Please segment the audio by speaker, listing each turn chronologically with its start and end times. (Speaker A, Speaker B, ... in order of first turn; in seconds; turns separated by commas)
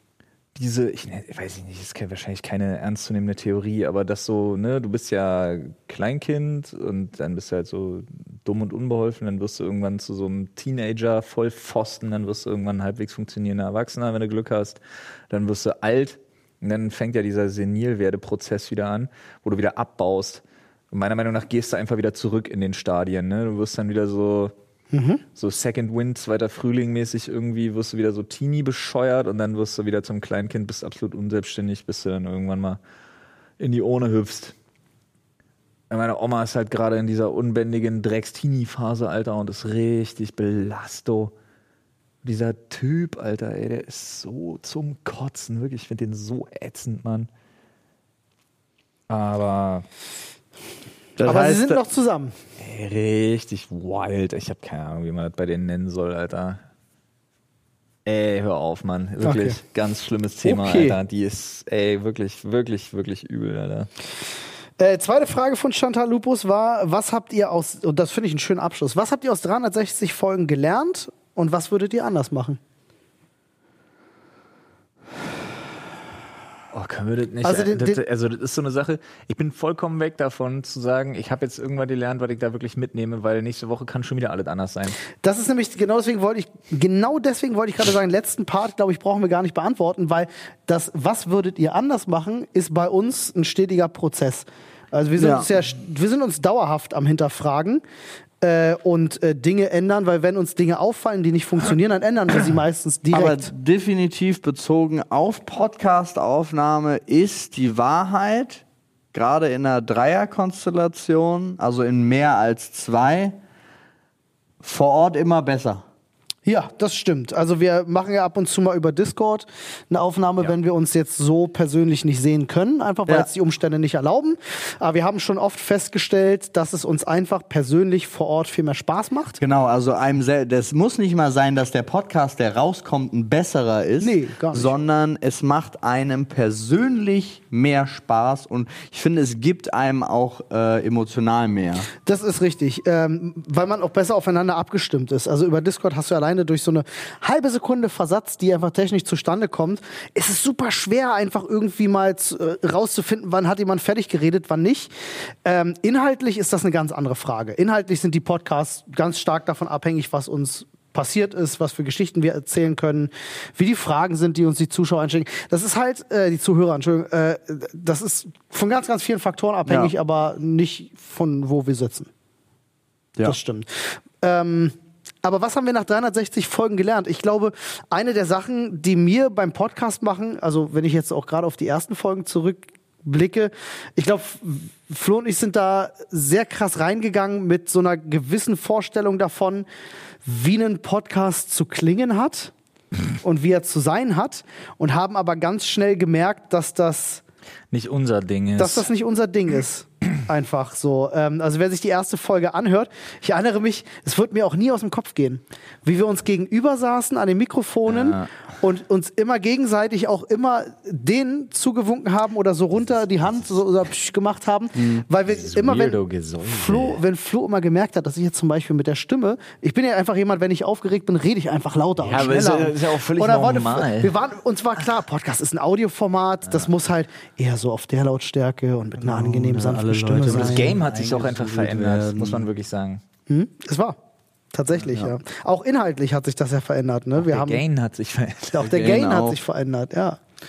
Speaker A: 0.5-24.5, Speaker B: 24.9-25.2, Speaker A: 25.3-32.8, Speaker A: 33.6-34.5, Speaker A: 35.9-41.3, Speaker A: 42.2-47.3, Speaker A: 49.1-49.8, Speaker C: 51.2-51.8, Speaker B: 51.2-52.3, Speaker A: 52.6-56.6, Speaker A: 58.0-63.9, Speaker B: 59.2-59.6, Speaker C: 60.4-61.0, Speaker B: 64.8-72.6, Speaker A: 76.7-85.0, Speaker B: 77.4-78.0, Speaker B: 85.2-97.8, Speaker C: 95.2-95.5, Speaker B: 98.4-103.5, Speaker C: 103.1-108.6, Speaker C: 109.1-113.4, Speaker C: 114.6-115.8, Speaker B: 116.4-129.4, Speaker C: 129.4-141.9, Speaker B: 134.0-134.8, Speaker B: 142.0-154.9, Speaker B: 155.4-172.1, Speaker C: 169.7-169.9, Speaker B: 173.2-189.7, Speaker B: 190.2-192.5, Speaker B: 193.2-197.2, Speaker A: 197.7-198.9, Speaker B: 198.6-230.8, Speaker C: 208.0-208.2, Speaker C: 214.8-215.0, Speaker A: 215.3-217.0, Speaker A: 222.0-224.1, Speaker C: 229.0-232.5, Speaker A: 230.2-233.0, Speaker B: 233.3-234.0, Speaker B: 234.5-237.6, Speaker A: 237.2-239.1, Speaker B: 238.5-240.2, Speaker C: 238.6-239.4